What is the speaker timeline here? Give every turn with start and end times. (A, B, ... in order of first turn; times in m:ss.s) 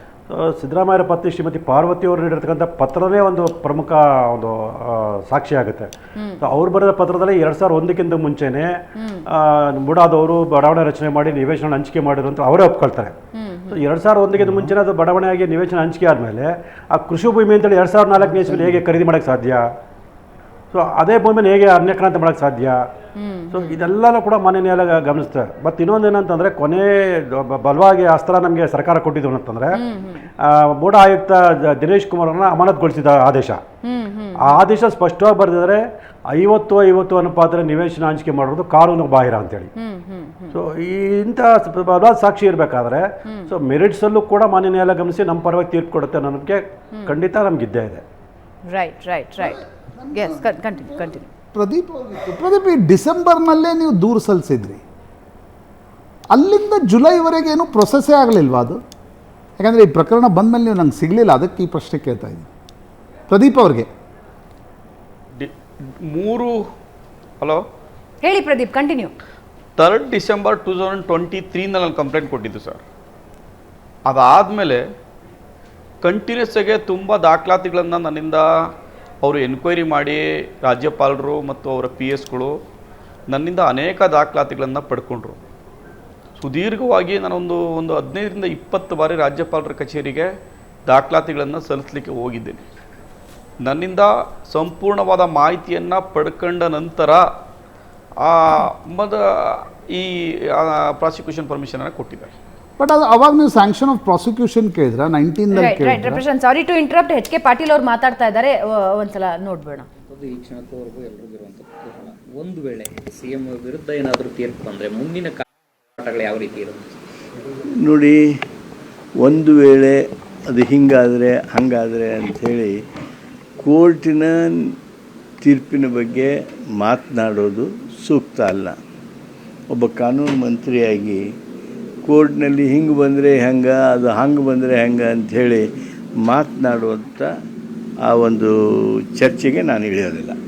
0:00.3-0:05.9 A
0:06.4-0:08.8 A
0:09.0-0:09.2 B
0:09.3-0:13.1 A
0:13.4-0:13.8 B
0:13.7-0:19.6 A
0:18.2-0:18.8 C
0:20.7-0:22.8 A
0:23.2-0:23.8 B
0:23.5-0:29.8 A
0:29.8-0:30.2 B
0:30.8-0:33.6 A
0:33.8-0:34.6 B
0:34.4-0:39.7 A
0:39.8-0:40.6 B
0:40.5-0:48.0 A
0:48.7-0:49.6 B
0:49.4-0:54.8 C
0:50.1-0:51.3 B
0:56.3-0:58.8 C
0:59.6-1:02.5 C
1:03.3-1:03.9 C
1:06.0-1:06.6 D
1:08.2-1:09.1 B
1:09.8-1:12.8 D
1:14.1-1:14.8 D
1:16.0-1:18.5 D
1:19.2-1:22.6 D
1:23.3-1:25.4 D
1:26.4-1:30.3 D
1:30.9-1:32.6 D
1:33.6-1:37.2 D
1:38.2-1:42.3 D
1:42.8-1:46.2 C
1:45.5-1:49.9 B
1:50.1-1:55.4 E
1:56.0-1:57.0 E
1:57.8-1:58.2 F
1:59.2-2:00.0 F
2:00.5-2:02.7 F
2:03.6-2:04.5 F
2:05.4-2:08.8 F
2:09.7-2:11.2 F
2:12.1-2:15.6 F
2:16.2-2:17.3 F
2:18.1-2:18.5 F
2:19.1-2:20.4 F